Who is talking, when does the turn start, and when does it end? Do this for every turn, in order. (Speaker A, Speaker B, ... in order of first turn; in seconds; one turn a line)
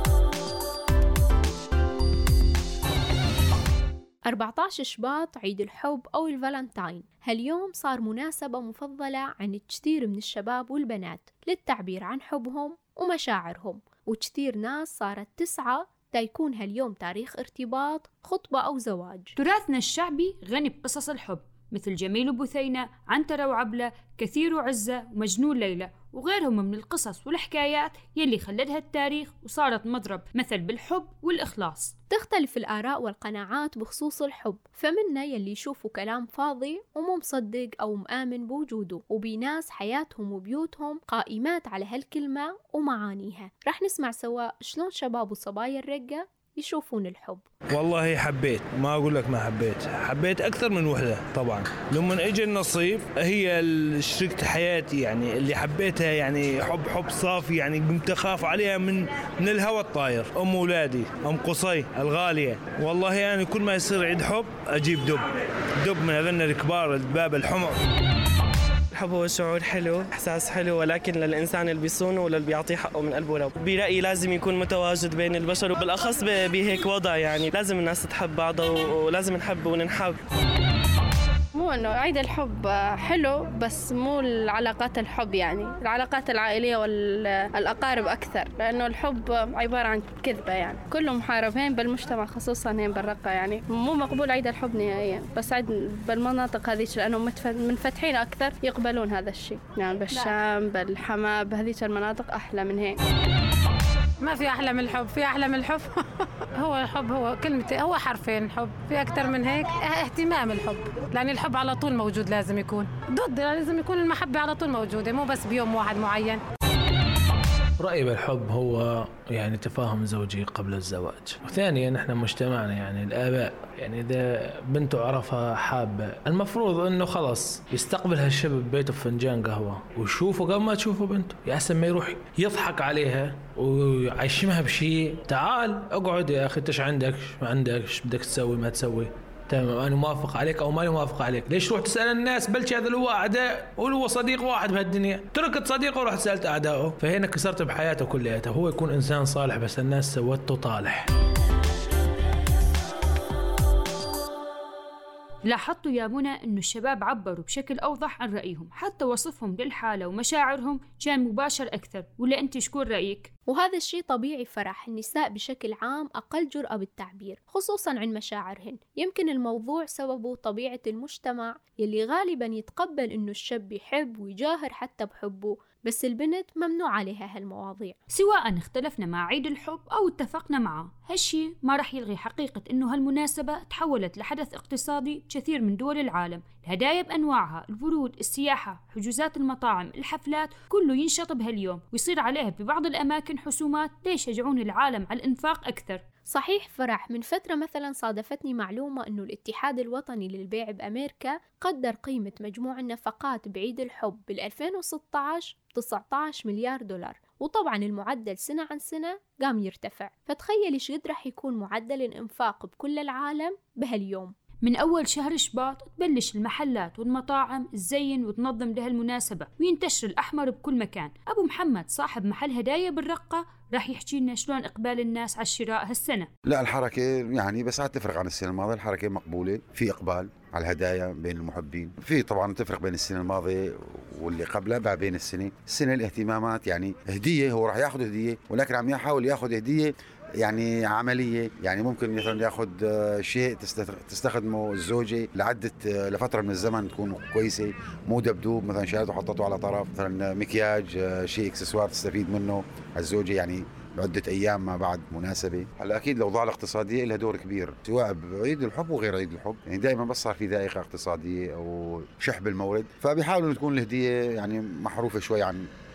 Speaker A: 4.3-19.3
Speaker B: 19.4-31.9
Speaker A: 32.1-47.4
Speaker C: 47.7-65.3
Speaker C: 65.8-67.8
Speaker D: 69.0-80.2
Speaker E: 81.5-103.0
Speaker F: 104.2-105.9
Speaker F: 106.6-116.4
Speaker G: 117.8-151.1
Speaker B: 155.5-163.3
Speaker A: 163.5-178.0
Speaker B: 178.1-196.0
Speaker A: 196.3-214.3
Speaker B: 214.6-226.3
Speaker H: 226.5-265.6